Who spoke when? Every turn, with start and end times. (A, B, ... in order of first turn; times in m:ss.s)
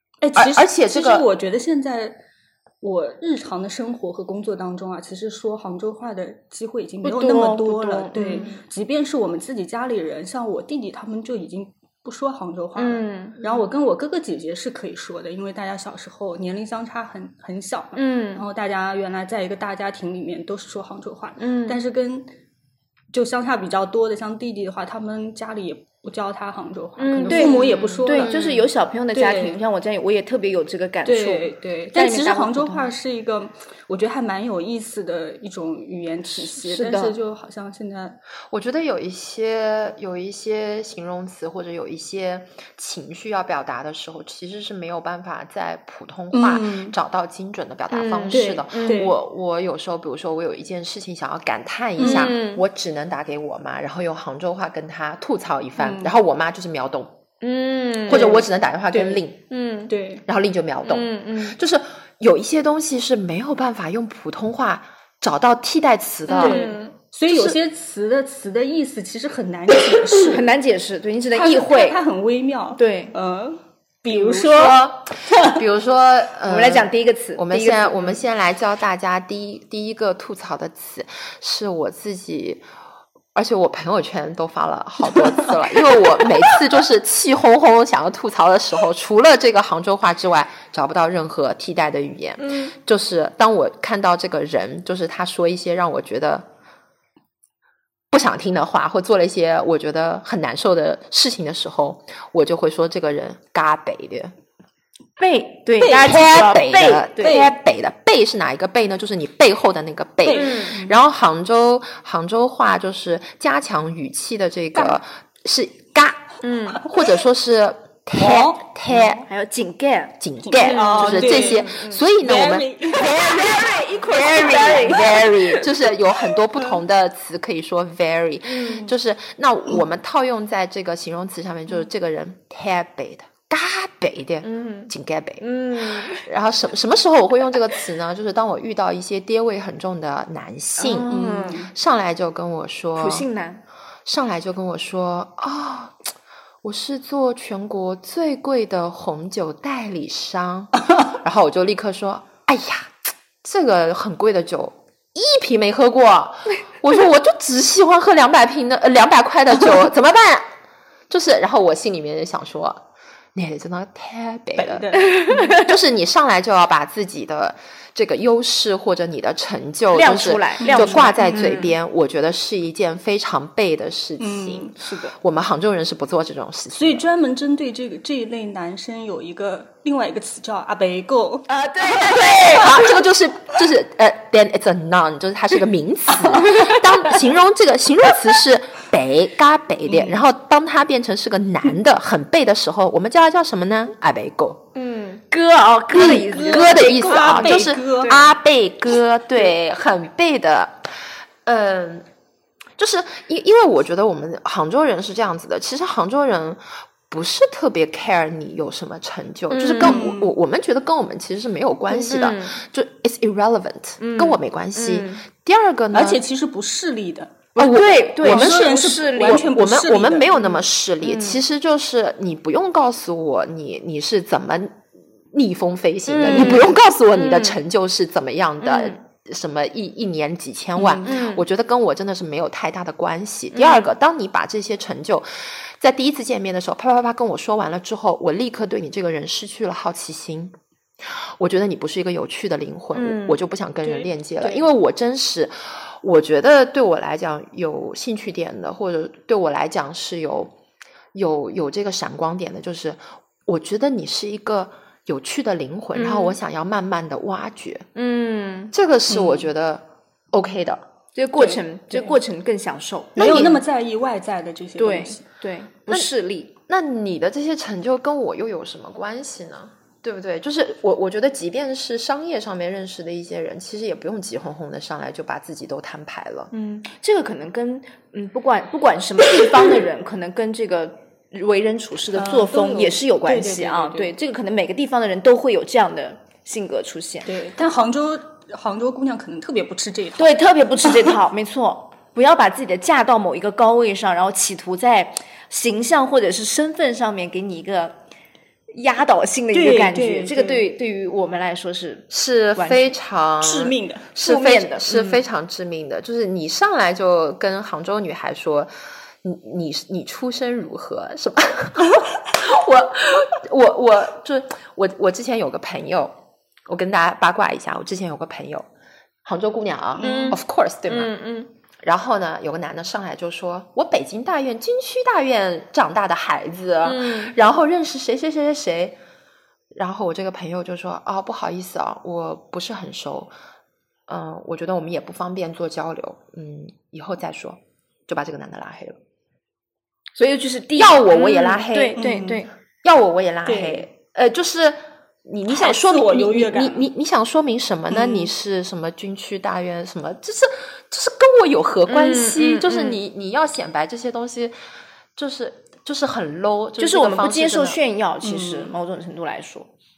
0:00.2-0:02.2 A
0:00.3-0:01.2 B
0:02.8-0:22.3 A
0:07.0-0:08.6 C
0:12.8-0:13.6 C
0:17.9-0:18.4 C
0:21.4-0:21.8 C
0:23.1-0:28.3 A
0:27.0-0:32.9 C
0:27.3-0:28.7 B
0:29.1-0:29.6 A
0:31.0-0:38.2 A
0:36.4-0:37.2 C
0:38.5-0:57.1 B
0:46.3-0:46.9 A
0:47.9-0:49.0 C
0:48.3-0:49.2 A
0:52.0-0:52.4 A
0:52.0-0:52.6 C
0:55.8-0:56.2 A
0:57.4-0:58.4 C
0:58.1-0:59.4 B
0:58.1-0:58.5 A
0:58.9-0:59.9 C
0:59.9-1:00.2 A
1:00.2-1:06.7 B
1:00.9-1:01.6 C
1:06.3-1:10.4 A
1:06.3-1:06.9 C
1:07.3-1:07.6 B
1:10.1-1:12.0 C
1:11.3-1:15.6 A
1:12.7-1:13.2 C
1:14.1-1:22.6 B
1:16.5-1:18.2 C
1:23.3-1:36.5 B
1:32.4-1:32.7 C
1:38.1-1:44.3 B
1:45.2-1:47.4 C
1:45.8-1:46.1 A
1:45.8-1:59.2 B
1:47.2-1:47.5 A
1:50.2-1:51.0 A
1:50.3-1:50.8 C
1:56.4-1:56.8 C
1:58.2-1:58.6 A
1:59.2-2:02.0 C
2:00.2-2:23.3 B
2:00.4-2:03.7 A
2:03.0-2:05.6 C
2:04.4-2:05.2 A
2:08.4-2:08.9 C
2:14.4-2:16.2 C
2:20.8-2:21.6 C
2:21.1-2:21.7 A
2:23.0-2:23.6 C
2:24.0-2:26.0 B
2:26.6-2:32.9 B
2:33.4-2:40.4 B
2:41.1-2:57.1 B
2:44.6-2:45.6 A
2:45.0-2:45.7 C
2:49.9-2:51.7 C
2:50.6-2:51.6 A
2:54.2-2:54.8 A
2:54.8-2:55.2 C
2:56.7-3:01.5 A
3:01.5-3:02.9 C
3:02.1-3:14.6 B
3:06.3-3:06.7 A
3:09.9-3:10.2 A
3:14.7-3:17.7 C
3:15.9-3:18.3 A
3:16.0-3:20.9 B
3:21.4-3:22.0 B
3:22.8-3:36.2 B
3:29.5-3:30.0 C
3:29.7-3:30.3 A
3:31.9-3:32.6 C
3:34.0-3:35.2 C
3:35.9-3:37.4 A
3:37.6-4:00.5 B
3:37.6-3:39.5 C
3:38.2-3:40.6 A
3:41.0-3:41.4 C
3:46.1-3:47.6 C
3:46.2-3:46.7 A
3:48.6-3:49.0 C
3:50.8-3:51.1 A
3:51.0-3:51.4 C
3:53.5-3:53.9 C
4:01.4-4:10.5 B
4:02.9-4:03.4 C
4:03.8-4:04.6 A
4:11.1-4:17.8 B
4:15.9-4:16.4 C
4:18.0-4:18.7 C
4:18.7-4:20.8 B
4:19.1-4:19.5 A
4:21.1-4:23.6 C
4:21.4-4:22.2 A
4:23.2-4:25.2 A
4:23.2-4:23.6 B
4:24.8-4:26.5 C
4:26.7-4:36.5 B
4:36.5-4:47.3 C
4:42.1-4:44.1 A
4:47.2-4:51.1 A
4:50.2-4:58.0 C
4:58.7-5:02.9 C
4:59.5-5:00.7 A
5:02.1-5:08.7 B
5:03.4-5:04.1 A
5:04.2-5:05.2 C
5:09.2-5:18.7 B
5:19.2-5:21.1 B
5:20.0-5:20.4 A
5:20.0-5:21.5 C
5:21.8-5:29.0 B
5:26.8-5:27.3 C
5:29.7-5:33.3 B
5:34.1-5:39.0 B
5:40.2-5:42.5 C
5:40.8-5:42.0 B
5:42.0-5:42.4 A
5:42.8-5:54.5 B
5:43.4-5:43.8 A
5:45.5-5:46.9 A
5:47.9-5:48.3 A
5:51.9-5:53.0 C
5:55.2-5:57.8 B
5:56.8-5:59.7 C
5:58.2-5:58.7 A